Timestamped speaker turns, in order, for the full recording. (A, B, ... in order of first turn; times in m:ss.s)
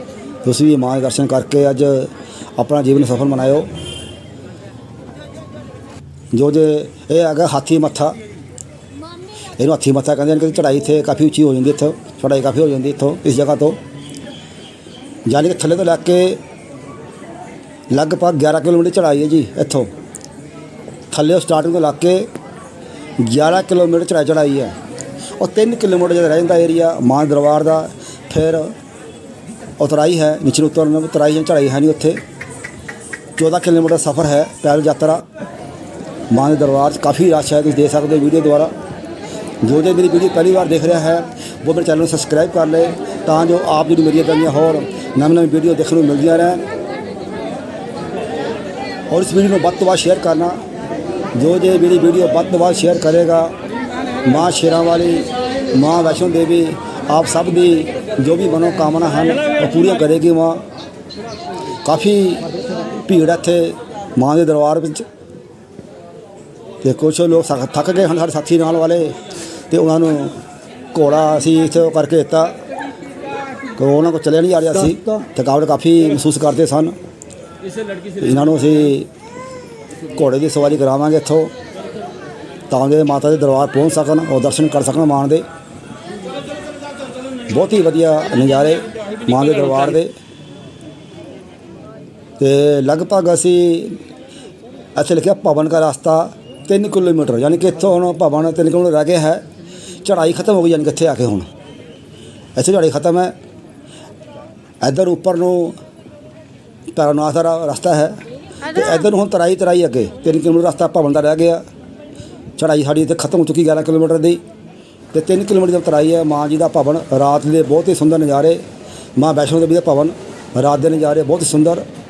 0:00.4-0:03.7 A
0:06.3-0:08.2 A
0:09.6-0:13.8 A
0:15.3-0:16.4 A
0:17.9-0:19.9 A
0:21.1-0:22.3 A
0:23.2-0:24.8 A
0:25.4-0:28.7 A
0:29.8-0:32.2 A
0:33.4-0:35.2 A
0:36.3-0:38.7 A
0:39.6-0:46.6 A
0:49.1-0:50.6 A
0:51.4-0:53.5 A
0:54.2-1:00.6 A
1:01.8-1:05.1 A
1:06.8-1:09.2 A
1:09.7-1:10.4 A
1:10.9-1:12.6 A
1:13.8-1:17.0 A
1:18.2-1:19.1 A
1:20.2-1:21.5 A
1:22.7-1:25.4 A
1:27.5-1:30.1 A
1:32.4-1:34.0 A
1:35.0-1:39.4 A
1:40.0-1:41.5 A
1:42.6-1:43.3 A
1:44.8-1:45.8 A
1:46.9-1:48.2 A
1:48.7-1:51.6 A
1:52.6-1:54.4 A
1:55.1-1:58.6 A
1:59.2-2:01.8 A